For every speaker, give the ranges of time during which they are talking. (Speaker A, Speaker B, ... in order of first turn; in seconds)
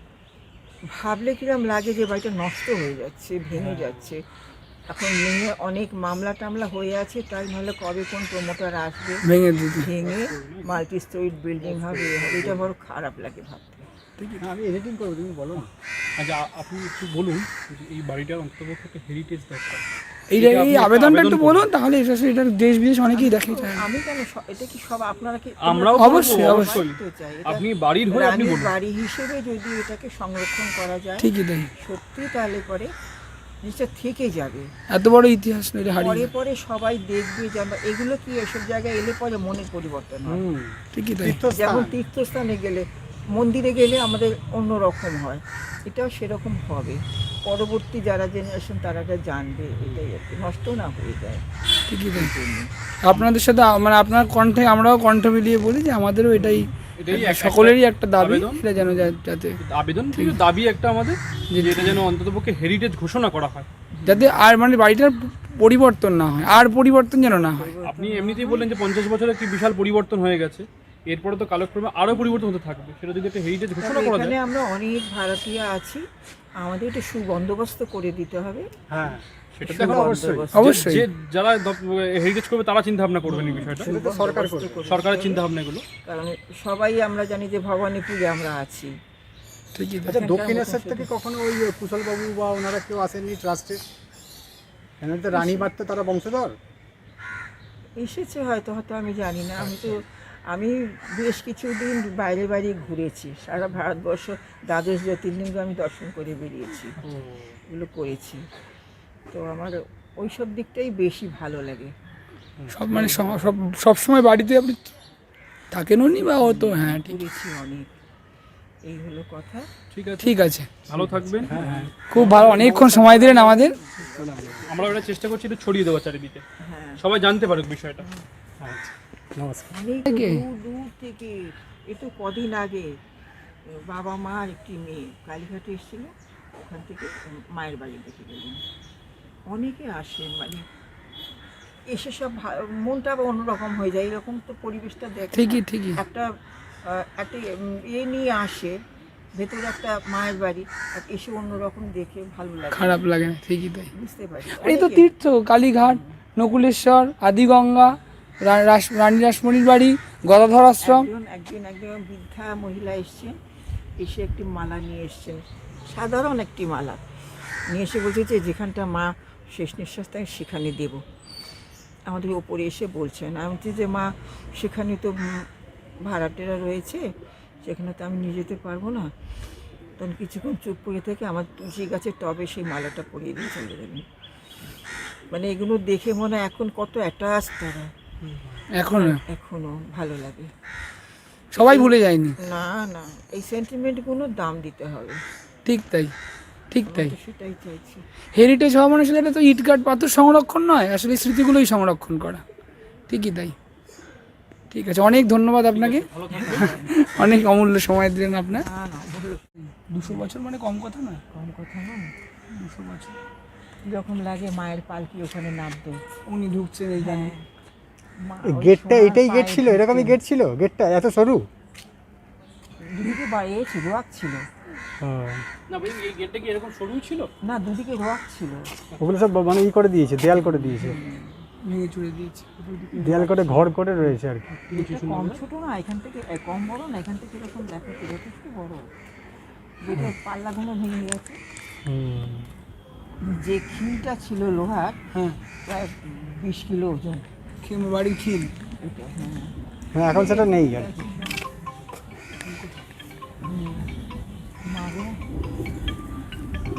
Speaker A: 0.9-4.2, 4.9-13.9, 23.1-32.9, 33.6-34.7, 35.9-40.4, 41.5-51.4, 52.1-53.3, 56.4-56.6, 63.9-64.3, 67.3-68.7, 73.8-76.1, 76.6-78.7, 79.6-81.0, 83.3-85.4, 86.0-89.0, 90.1-91.1, 95.3-95.7, 98.0-107.0, 107.7-108.5, 109.3-111.9, 116.4-117.9, 118.8-119.7, 121.5-125.0, 126.6-127.0, 129.7-132.9, 133.7-136.1, 136.7-138.6, 139.5-140.7, 141.9-148.8, 149.3-153.1, 153.9-155.1, 160.8-163.4, 164.0-167.1, 167.7-171.0, 172.1-175.5, 176.0-177.1, 177.6-179.1, 180.0-184.1, 185.3-187.9, 188.9-190.5, 191.6-195.2, 196.9-198.1, 206.3-206.9, 208.5-209.5, 211.3-212.1, 213.9-216.0, 217.0-217.4, 218.2-220.2, 222.8-224.5, 227.4-228.7, 230.4-231.4, 234.7-238.9, 239.8-241.4, 243.2-245.0, 245.7-247.3, 248.8-249.6, 250.1-251.4, 253.4-253.9, 254.6-255.2
Speaker B: 3.6-4.0, 9.9-10.8, 11.7-12.6, 16.2-19.8, 20.4-21.6, 25.6-28.7, 57.0-58.6, 59.6-63.7, 67.8-74.4, 79.6-83.9, 84.9-85.8, 107.0-107.5, 113.0-113.3, 119.9-122.2, 124.6-126.4, 127.0-128.1, 188.2-188.6, 205.7-206.8, 225.7-227.3, 234.7-235.4
Speaker C: 9.2-9.9, 14.2-14.4, 20.3-23.9, 26.0-26.8, 31.2-31.7, 34.9-36.3, 40.9-41.4, 51.9-52.3, 53.0-59.6, 61.5-62.0, 64.1-67.7, 80.5-81.1, 89.7-90.3, 112.7-114.9, 115.7-117.2, 120.2-120.7, 122.1-123.8, 130.1-130.4, 145.3-146.0, 152.7-153.9, 154.6-161.1, 188.7-189.2, 191.5-192.4, 195.7-196.1, 196.7-197.1, 198.3-202.4, 203.1-203.6, 204.7-208.7, 209.9-211.2, 212.5-213.2, 216.3-217.3, 231.6-233.6, 245.1-245.4, 247.6-248.5, 252.3-252.8
Speaker D: 14.4-15.7, 40.2-42.0, 78.9-80.5, 83.5-84.8, 90.1-93.8, 95.0-96.6, 112.6-113.1, 120.9-123.3, 124.0-124.7, 128.6-129.7, 218.4-221.4, 225.0-225.4, 229.0-231.0, 232.9-234.6, 241.9-242.5, 249.9-250.9